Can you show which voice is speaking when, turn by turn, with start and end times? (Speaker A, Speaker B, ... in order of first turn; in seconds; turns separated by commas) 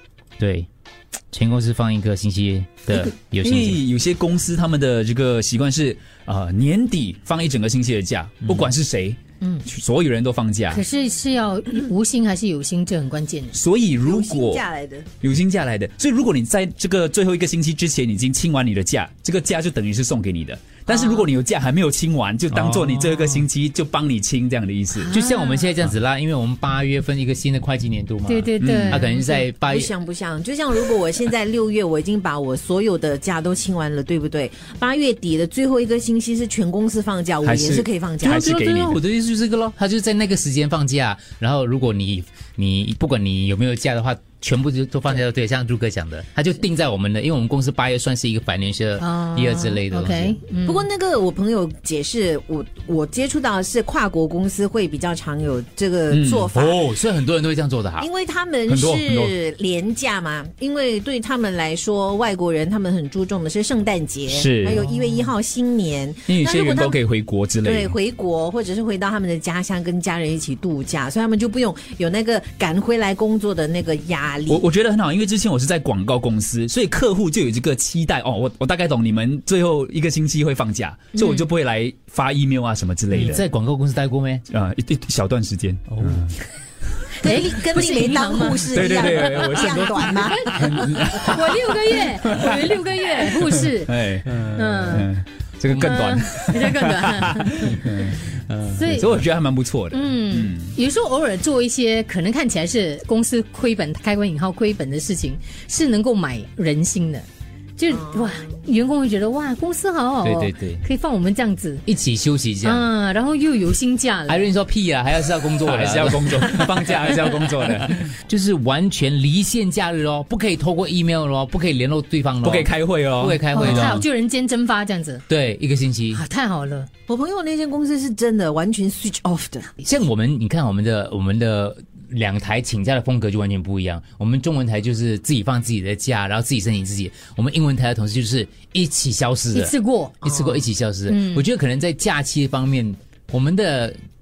Speaker A: 0.4-0.7, Speaker A: 1.3-3.8, Speaker B: 3.0-10.8, Speaker C: 10.7-13.6, Speaker B: 13.5-14.6, Speaker D: 14.0-15.1, Speaker B: 15.2-25.1, Speaker D: 20.9-21.3, Speaker A: 22.5-23.4, Speaker C: 24.9-25.7, Speaker A: 25.1-29.9, Speaker C: 28.3-29.4, Speaker B: 28.6-29.0, Speaker D: 29.5-38.5, Speaker B: 37.4-39.0, Speaker A: 38.2-50.4, Speaker C: 49.0-50.9, Speaker D: 50.6-56.9, Speaker B: 56.1-56.5, Speaker A: 56.5-58.1, Speaker D: 58.0-67.0, Speaker B: 58.7-59.3, Speaker B: 64.3-64.8, Speaker B: 66.3-67.9, Speaker D: 67.6-74.6, Speaker B: 74.5-83.4, Speaker A: 83.1-84.4, Speaker B: 84.5-86.3, Speaker A: 85.9-86.3, Speaker D: 87.2-90.7, Speaker C: 87.2-93.9, Speaker B: 88.7-100.7, Speaker A: 94.3-94.6, Speaker C: 94.5-95.1, Speaker C: 95.7-98.0, Speaker A: 98.5-98.8, Speaker C: 98.6-99.2, Speaker C: 99.9-107.2, Speaker C: 107.8-111.8, Speaker D: 107.9-108.6, Speaker A: 110.2-110.8, Speaker A: 111.8-112.9, Speaker C: 112.6-114.5, Speaker A: 114.3-124.0, Speaker B: 115.6-118.1, Speaker B: 122.4-124.0, Speaker C: 123.5-125.2, Speaker A: 125.3-126.2, Speaker C: 126.1-126.9, Speaker D: 127.1-129.7, Speaker A: 129.8-144.0, Speaker C: 139.5-140.2, Speaker D: 140.2-140.7, Speaker C: 141.1-141.4